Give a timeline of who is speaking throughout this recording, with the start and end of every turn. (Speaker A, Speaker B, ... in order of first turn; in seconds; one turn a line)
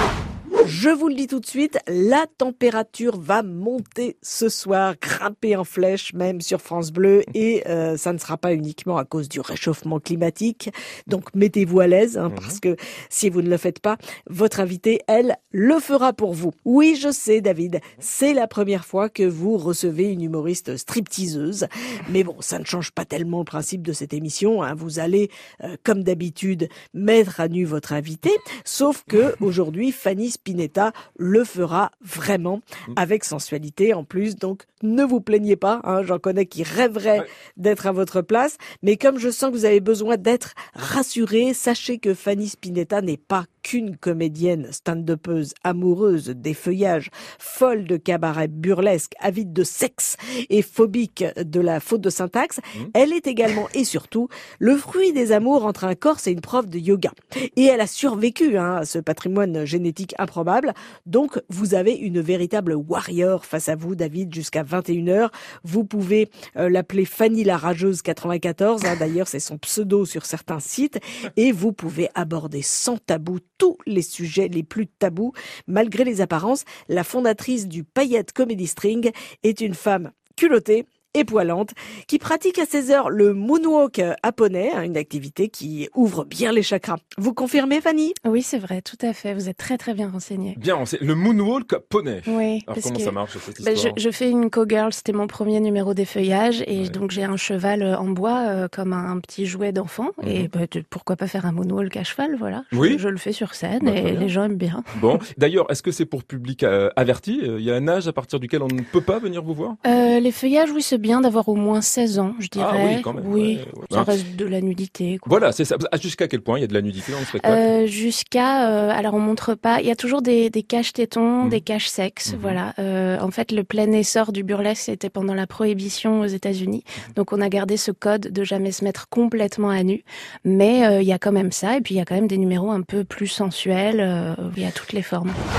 Speaker A: 0.6-88.1
Speaker B: 12.3-12.6
Speaker C: 88.2-90.6
Speaker B: 90.5-94.0
Speaker C: 92.3-104.9
Speaker B: 100.2-100.5
Speaker B: 102.7-103.0
Speaker B: 103.8-104.3
Speaker B: 104.9-109.8
Speaker C: 109.8-115.4
Speaker B: 112.5-114.1
Speaker B: 115.2-117.7
Speaker C: 117.4-135.4
Speaker B: 122.3-122.6